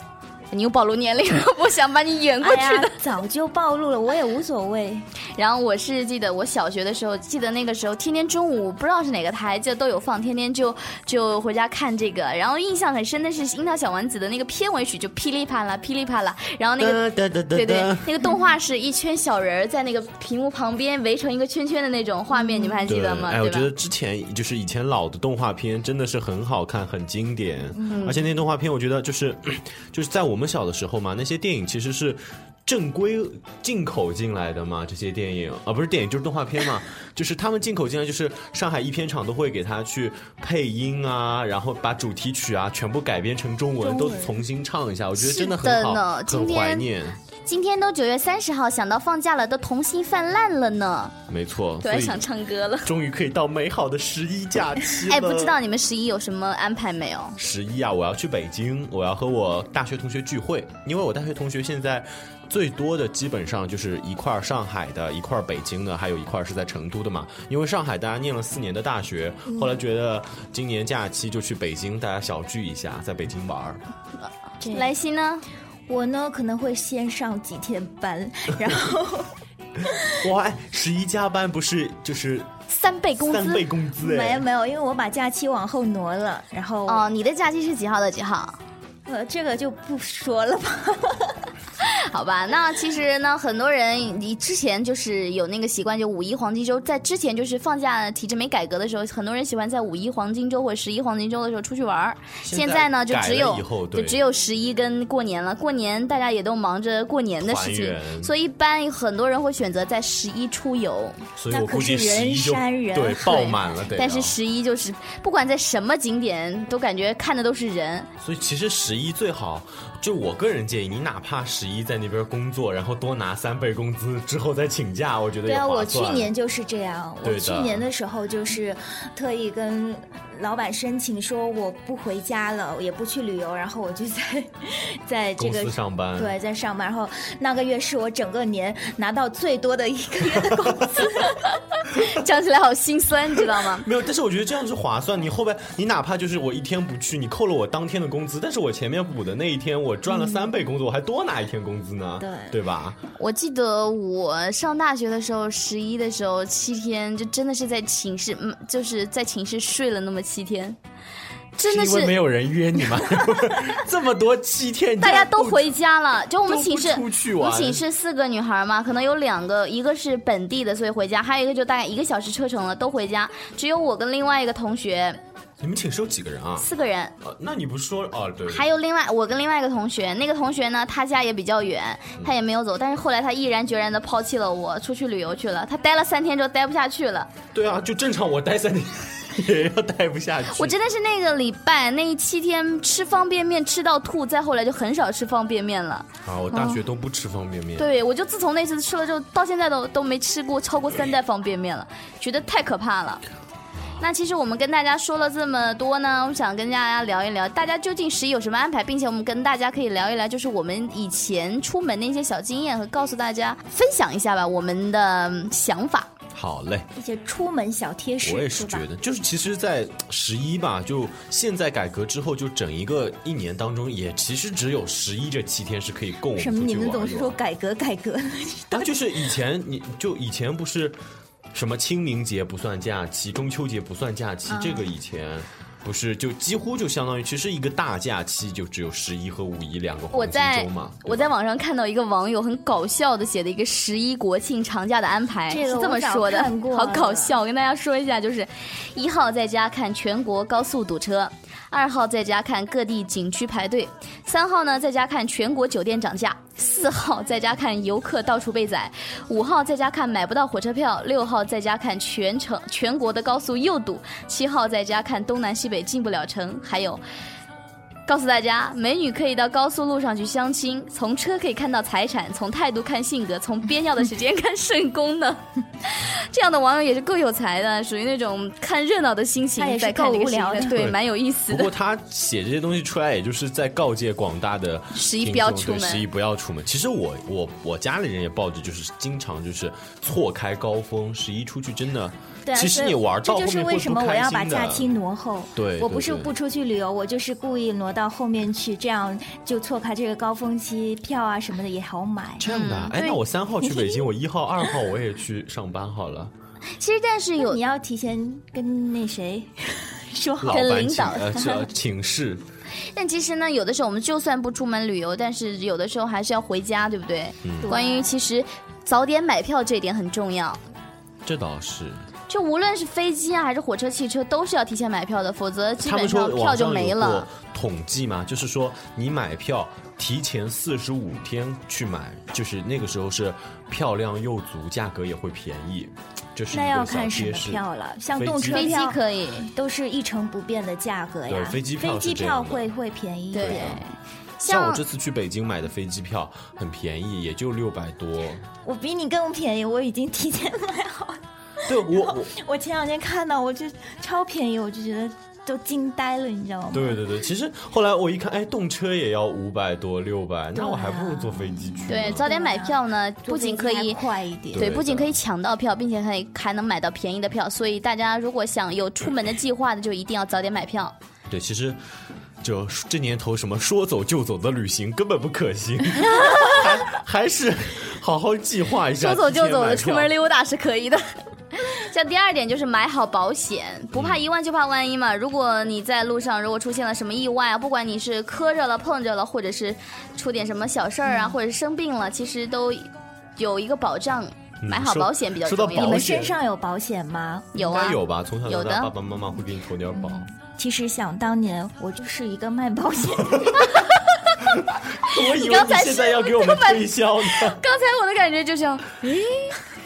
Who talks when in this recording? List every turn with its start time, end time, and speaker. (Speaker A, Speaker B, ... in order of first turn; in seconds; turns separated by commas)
Speaker A: 0.5-2.9, Speaker B: 2.4-5.0, Speaker A: 5.3-23.7, Speaker C: 16.8-18.1, Speaker B: 22.4-22.8, Speaker C: 22.9-47.2, Speaker A: 27.9-28.2, Speaker B: 43.8-44.4, Speaker A: 45.2-46.9, Speaker A: 47.4-51.1, Speaker C: 51.3-52.2, Speaker A: 51.8-52.9, Speaker C: 52.8-55.5, Speaker A: 55.1-57.4, Speaker C: 57.4-73.8, Speaker B: 69.5-69.8, Speaker B: 74.6-74.9, Speaker A: 74.6-75.4, Speaker B: 75.9-79.3, Speaker C: 80.1-82.5, Speaker A: 82.7-83.6, Speaker C: 83.2-84.5, Speaker B: 84.0-87.1, Speaker A: 86.9-88.6, Speaker B: 89.0-91.4, Speaker A: 91.8-111.2, Speaker C: 102.4-104.2, Speaker C: 107.4-108.3, Speaker C: 111.3-114.3, Speaker B: 111.5-113.6, Speaker A: 113.9-118.1, Speaker C: 118.2-126.3, Speaker B: 125.4-141.5, Speaker C: 127.2-127.9, Speaker C: 135.4-136.4, Speaker C: 140.5-141.1, Speaker A: 141.2-143.8, Speaker C: 143.5-153.0, Speaker B: 150.1-150.5, Speaker B: 152.2-152.6, Speaker A: 153.2-160.8, Speaker A: 161.6-162.2, Speaker C: 161.6-165.7, Speaker A: 165.0-175.2, Speaker C: 166.4-167.8, Speaker C: 175.6-176.7, Speaker A: 176.6-177.1, Speaker C: 177.2-178.7, Speaker A: 178.5-187.3, Speaker C: 187.5-190.8, Speaker A: 190.5-196.8, Speaker C: 196.2-197.9, Speaker A: 197.8-203.2, Speaker A: 204.0-216.1, Speaker C: 216.3-216.9, Speaker B: 216.9-218.8, Speaker C: 218.2-227.4, Speaker B: 226.3-228.9, Speaker C: 228.7-231.0, Speaker C: 231.5-241.3, Speaker B: 234.5-234.9, Speaker A: 240.1-267.0, Speaker B: 245.5-247.3, Speaker A: 268.1-281.7, Speaker B: 279.6-280.7, Speaker C: 280.7-294.9, Speaker A: 284.9-286.0, Speaker B: 292.4-302.5, Speaker C: 295.6-296.3, Speaker C: 302.4-306.3, Speaker A: 302.5-303.2, Speaker B: 303.6-304.1, Speaker A: 306.8-307.6, Speaker B: 307.4-311.6, Speaker C: 310.4-312.4, Speaker A: 310.5-311.3, Speaker A: 312.9-320.6, Speaker C: 317.4-317.7, Speaker B: 317.6-318.1, Speaker C: 321.2-322.1, Speaker A: 322.3-327.3, Speaker C: 325.8-337.6, Speaker B: 336.5-343.8, Speaker C: 338.1-338.7, Speaker A: 338.5-339.5, Speaker C: 341.3-342.6, Speaker A: 343.3-344.8, Speaker C: 343.4-343.8, Speaker C: 344.4-348.4, Speaker B: 348.6-357.0, Speaker C: 351.6-352.3, Speaker C: 356.7-362.2, Speaker B: 360.5-364.7, Speaker A: 361.9-364.0, Speaker C: 364.5-365.1, Speaker A: 364.6-370.9, Speaker C: 371.3-371.8, Speaker C: 372.4-380.1, Speaker A: 376.1-376.6, Speaker A: 379.0-396.0, Speaker C: 383.9-384.2, Speaker B: 391.0-391.4, Speaker C: 394.6-396.4, Speaker B: 395.7-397.5, Speaker A: 397.5-398.9, Speaker C: 397.6-400.3, Speaker B: 399.9-403.7, Speaker C: 403.3-403.6, Speaker A: 403.6-404.1, Speaker C: 404.5-407.6, Speaker A: 405.1-409.6